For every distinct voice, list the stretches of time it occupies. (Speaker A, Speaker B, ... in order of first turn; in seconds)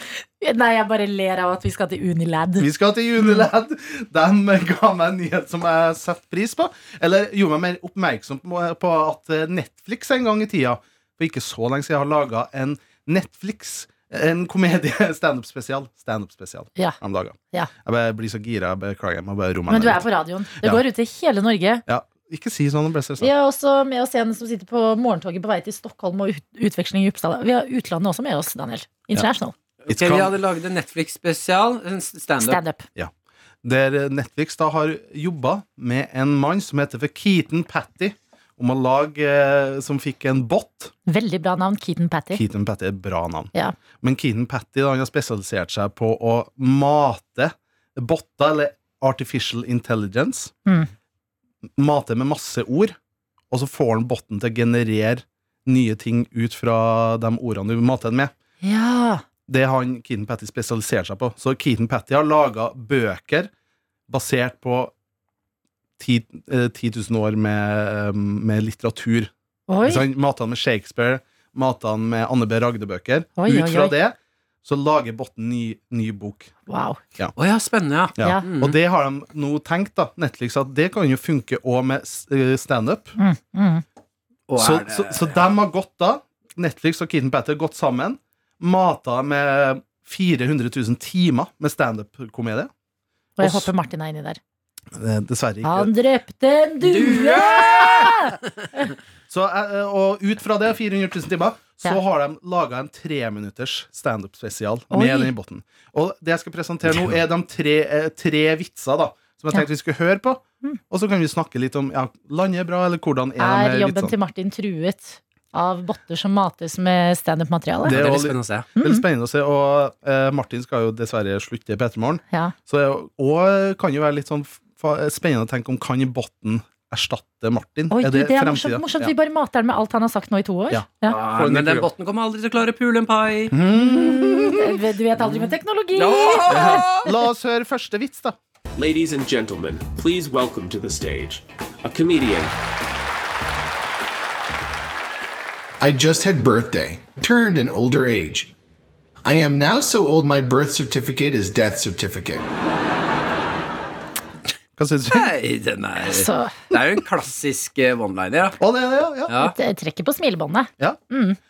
Speaker A: 0.4-2.7, 3.2-3.5, 19.7-21.8, 23.2-29.5, 32.4-32.9, 41.1-42.4, 58.6-59.2, 69.7-70.1, 73.4-74.0, 76.7-77.0, 78.2-78.5, 83.2-83.8, 93.4-94.4, 95.6-98.9, 104.9-105.3, 113.4-118.0, 118.8-119.0, 127.9-131.2, 133.7-137.0, 156.1-156.6, 159.4-161.4
Speaker B: 2.6-20.8, 21.9-23.3, 29.9-30.3, 33.6-40.9, 42.3-50.5, 51.8-53.0, 53.5-58.3, 59.5-63.5, 64.1-64.9, 66.0-69.3, 69.8-76.5, 78.2-83.2, 84.6-92.7, 93.4-93.7, 95.0-95.9, 99.3-114.2, 117.8-129.1, 130.7-131.9, 133.5-134.6, 136.5-138.3, 154.8-155.3, 158.6-159.3
Speaker C: 29.9-32.6, 77.4-78.8, 84.5-85.4, 96.8-98.2, 106.9-107.2, 117.9-118.7, 131.1-133.5, 134.3-134.5, 135.2-137.1, 155.1-158.6, 159.3-159.6
Speaker D: 138.8-142.5
Speaker E: 145.8-148.5, 149.2-152.4